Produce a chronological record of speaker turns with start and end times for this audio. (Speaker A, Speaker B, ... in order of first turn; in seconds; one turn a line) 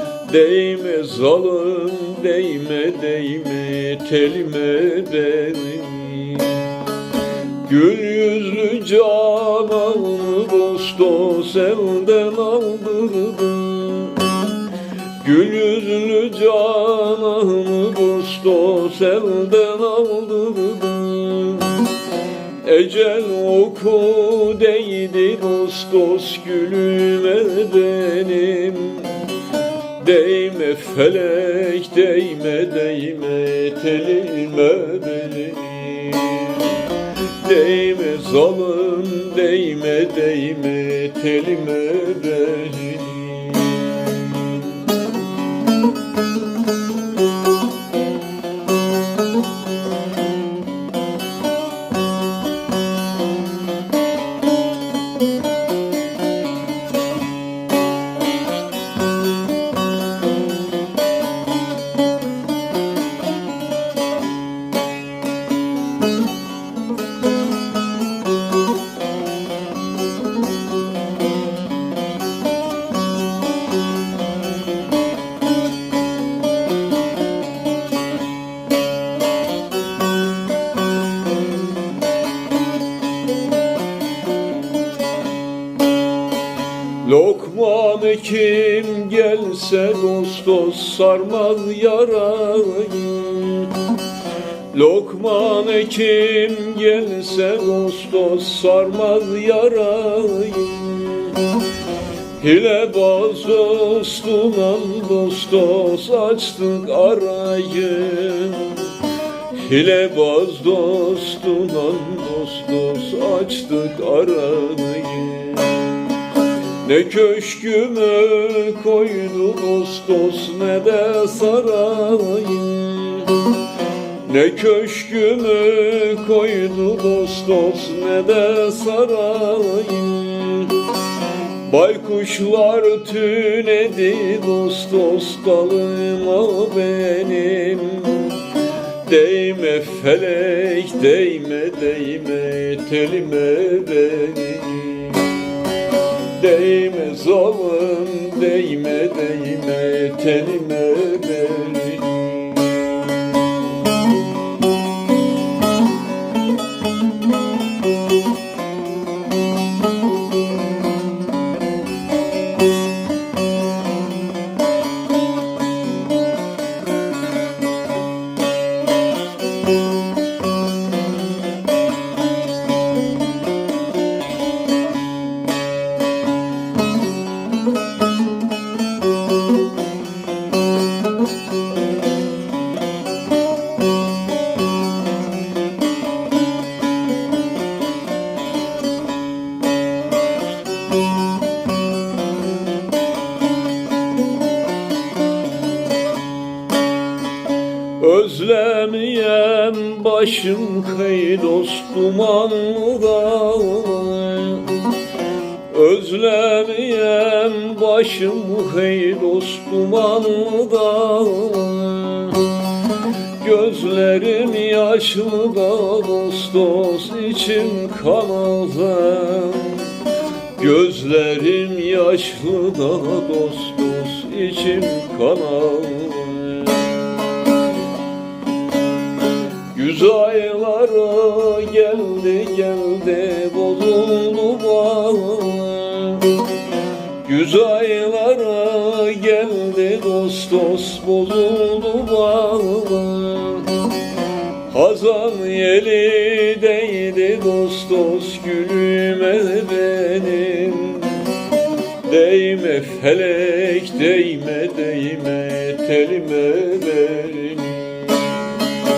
Speaker A: 0.2-6.8
Speaker A: 7.6-14.5
Speaker A: 15.2-21.9
Speaker A: 22.6-29.4
Speaker A: 30.0-44.8
Speaker A: 87.0-93.9
Speaker A: 94.7-101.5
Speaker A: 102.4-109.0
Speaker A: 109.5-116.1
Speaker A: 116.8-123.6
Speaker A: 124.2-130.9
Speaker A: 131.6-145.5
Speaker A: 146.3-153.5
Speaker A: 198.0-204.9
Speaker A: 205.7-212.6
Speaker A: 213.4-220.0
Speaker A: 220.6-227.0
Speaker A: 229.7-236.5
Speaker A: 237.2-243.9
Speaker A: 244.6-251.4
Speaker A: 252.0-258.5